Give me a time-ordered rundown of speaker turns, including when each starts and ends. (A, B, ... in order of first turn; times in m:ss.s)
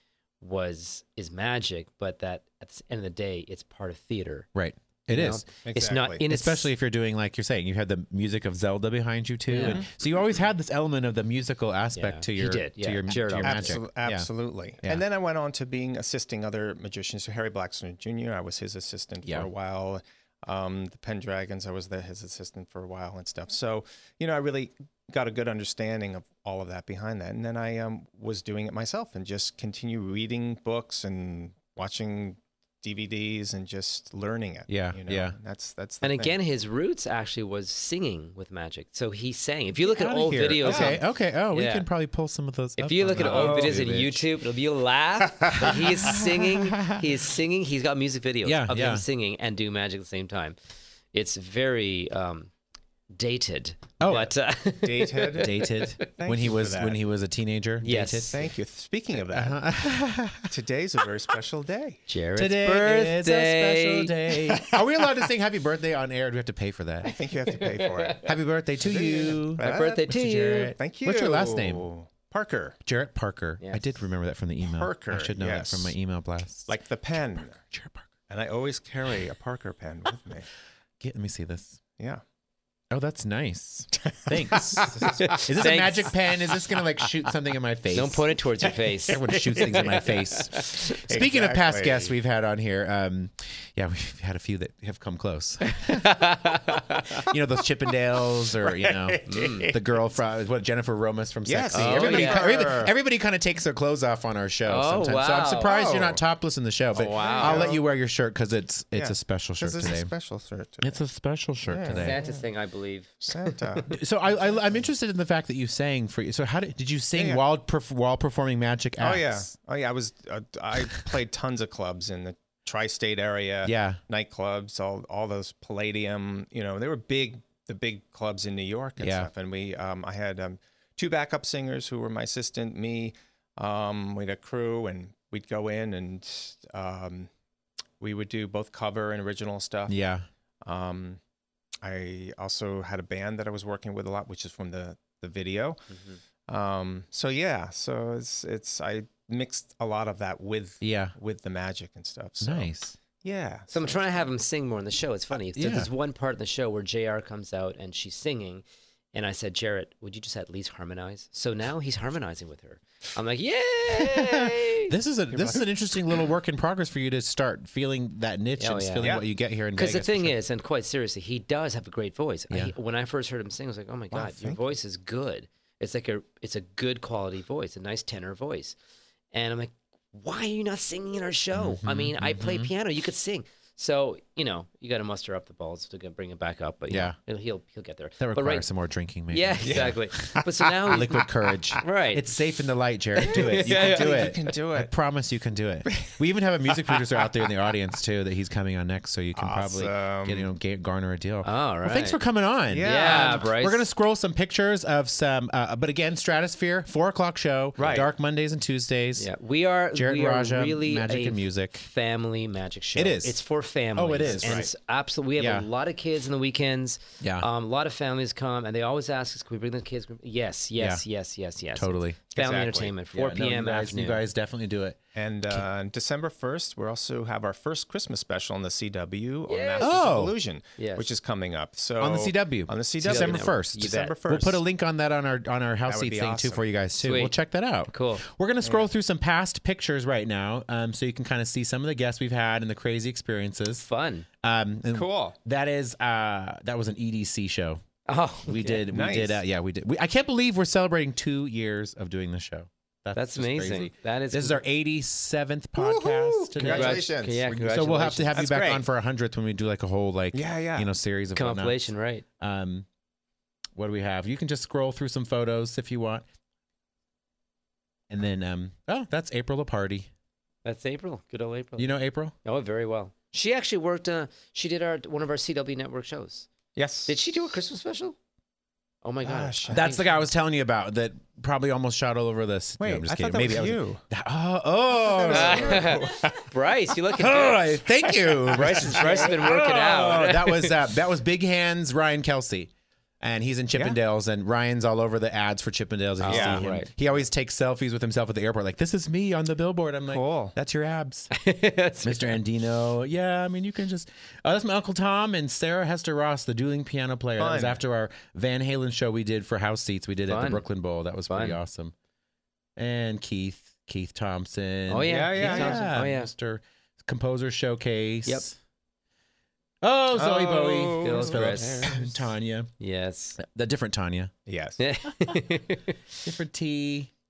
0:00.4-0:04.5 A
0:04.6-0:05.4 B
0:05.1-0:06.7 A
0:05.6-0:06.2 C
0:06.3-0:14.3 B
0:09.5-0:09.8 A
0:09.6-0:09.9 C
0:12.0-0:13.8 A
0:13.4-0:36.4 C
0:34.7-0:35.4 B
0:36.0-0:41.9 A
0:39.9-0:44.2 B
0:40.6-0:41.0 C
0:42.8-0:50.6 A
0:43.2-0:43.8 C
0:45.4-0:45.9 C
0:45.6-0:47.0 B
0:48.4-0:49.0 B
0:51.1-0:52.5 A
0:53.1-0:56.1 A
0:54.0-0:54.3 B
0:54.8-0:57.0 C
0:55.3-0:58.4 B
0:57.8-0:58.4 A
0:58.3-0:59.6 C
0:59.3-1:00.5 B
1:00.5-1:02.0 C
1:02.1-1:04.2 A
1:02.4-1:07.2 B
1:04.4-1:05.3 C
1:07.0-1:12.8 C
1:07.5-1:08.3 A
1:08.2-1:11.9 B
1:09.6-1:10.7 A
1:12.9-1:16.8 B
1:13.6-1:13.9 A
1:14.6-1:15.9 C
1:16.7-1:17.6 C
1:17.6-1:18.1 B
1:18.3-1:20.5 C
1:21.0-1:21.8 B
1:22.9-1:28.3 B
1:24.0-1:25.2 C
1:24.8-1:26.1 A
1:27.9-1:31.0 A
1:29.1-1:36.2 B
1:29.3-1:30.0 C
1:30.8-1:32.1 C
1:35.6-1:37.2 A
1:37.2-1:50.1 B
1:38.6-1:39.8 C
1:39.3-1:39.7 A
1:41.5-1:42.9 C
1:41.7-1:42.7 A
1:44.7-1:45.8 A
1:45.6-1:46.2 C
1:47.0-1:47.8 A
1:47.0-1:47.9 C
1:48.9-1:51.0 C
1:50.8-1:52.2 B
1:51.7-1:52.4 C
1:51.9-1:53.2 A
1:53.2-1:54.0 C
1:53.9-1:59.5 B
1:57.2-1:57.4 C
1:59.0-2:17.3 C
2:03.6-2:04.0 B
2:09.0-2:09.3 B
2:18.0-2:20.0 C
2:19.9-2:20.3 B
2:20.6-2:21.2 C
2:21.8-2:25.9 C
2:25.9-2:26.2 A
2:26.5-2:32.7 C
2:30.8-2:31.2 B
2:32.4-2:33.0 B
2:33.2-2:34.3 C
2:33.7-2:45.0 A
2:35.6-2:35.9 B
2:43.9-2:50.4 B
2:45.3-2:45.6 C
2:48.6-2:49.2 A
2:49.8-2:58.8 A
2:54.1-2:54.6 C
2:59.3-3:08.7 A
3:01.6-3:02.7 B
3:06.9-3:07.2 B
3:08.2-3:29.3 B
3:09.3-3:11.2 A
3:09.6-3:11.8 C
3:11.8-3:12.3 A
3:13.2-3:14.4 A
3:13.3-3:14.9 C
3:16.8-3:17.3 C
3:19.4-3:20.5 C
3:21.4-3:22.2 A
3:22.7-3:23.5 C
3:22.8-3:23.8 A
3:27.8-3:28.1 C
3:29.2-3:44.2 A
3:29.9-3:31.8 B
3:33.0-3:33.4 B
3:34.0-3:34.7 B
3:34.2-3:34.7 C
3:35.4-3:35.7 B
3:37.2-3:37.5 B
3:40.8-3:41.0 B
3:41.8-3:42.2 B
3:42.3-3:42.9 C
3:43.1-3:45.0 B
3:45.2-3:54.6 C
3:49.5-3:50.0 A
3:49.8-3:50.4 B
3:50.8-3:51.1 A
3:52.0-4:03.9 B
3:53.0-3:54.1 A
3:55.9-3:56.6 C
3:57.0-3:57.4 A
3:57.9-3:58.2 A
3:58.6-3:58.9 C
4:03.8-4:04.3 A
4:04.4-4:07.8 B
4:04.9-4:05.4 C
4:08.1-4:08.9 A
4:08.5-4:21.8 B
4:08.9-4:09.4 C
4:13.1-4:14.6 A
4:15.8-4:17.4 C
4:16.6-4:18.4 A
4:18.3-4:18.8 C
4:20.3-4:20.9 C
4:21.4-4:22.2 A
4:22.4-4:22.9 B
4:23.8-4:26.2 B
4:28.1-4:30.1 B
4:30.6-4:36.5 A
4:31.8-4:32.3 B
4:36.8-4:37.1 C
4:37.1-4:38.2 A
4:39.0-4:40.0 A
4:39.2-4:40.0 C
4:39.7-4:46.0 B
4:42.8-4:44.0 C
4:45.0-4:46.5 C
4:45.3-4:47.7 A
4:47.2-5:01.3 B
4:48.2-4:49.4 C
4:48.5-4:50.8 A
4:56.2-4:56.9 A
4:56.3-4:56.7 C
5:00.1-5:00.5 C
5:01.3-5:02.4 A
5:02.0-5:11.9 B
5:07.4-5:07.8 C
5:10.3-5:10.6 A
5:11.3-5:11.6 A
5:12.8-5:18.6 B
5:14.9-5:16.3 A
5:15.0-5:15.9 C
5:19.8-5:22.7 B
5:20.1-5:22.2 C
5:21.0-5:21.9 A
5:22.8-5:23.4 A
5:23.4-5:24.3 B
5:24.5-5:24.8 C
5:24.8-5:26.0 A
5:26.2-5:27.1 B